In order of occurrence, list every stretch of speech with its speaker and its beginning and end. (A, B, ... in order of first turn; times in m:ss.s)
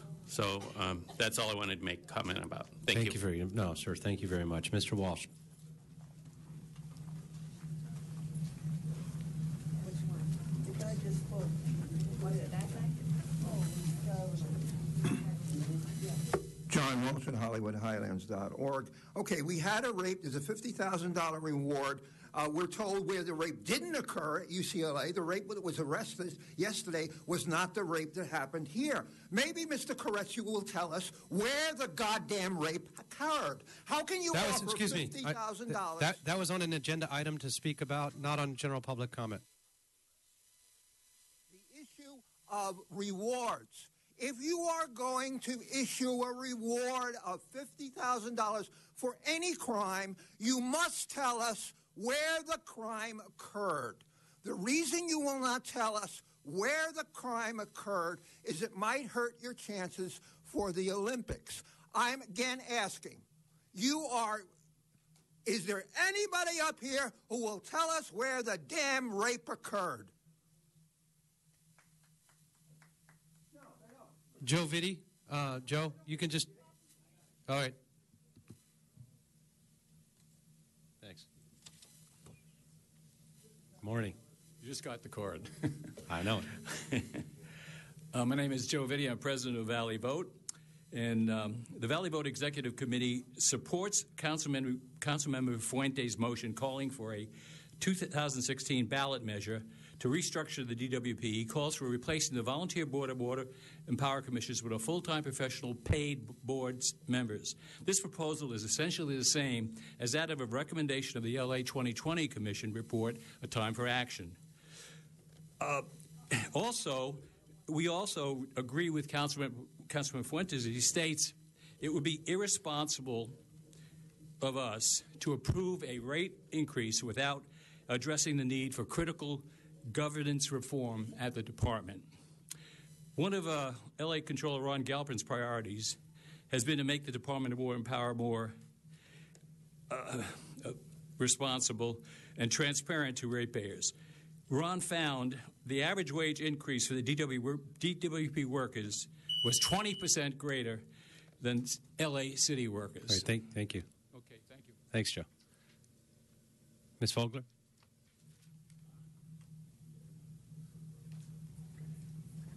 0:00.2-0:03.2 A
0:02.9-0:05.3 B
0:16.7-0:36.2 C
0:34.3-0:39.4 B
0:41.5-1:04.5 C
1:05.4-1:10.1 C
1:14.4-1:16.5 B
1:17.5-1:17.8 B
1:23.8-1:24.2 B
1:24.6-1:25.9 D
1:26.1-1:26.5 B
1:26.7-1:27.2 D
1:28.1-1:30.4 D
1:30.9-1:54.4 D
1:55.6-2:03.4 D
2:04.4-2:12.1 D
2:13.2-2:16.0 D
2:16.5-2:18.6 D
2:19.9-2:23.9 D
2:24.5-2:30.8 D
2:31.4-2:33.3 D
2:33.1-2:33.8 B
2:34.1-2:34.8 D
2:34.9-2:35.3 B
2:37.0-2:37.4 B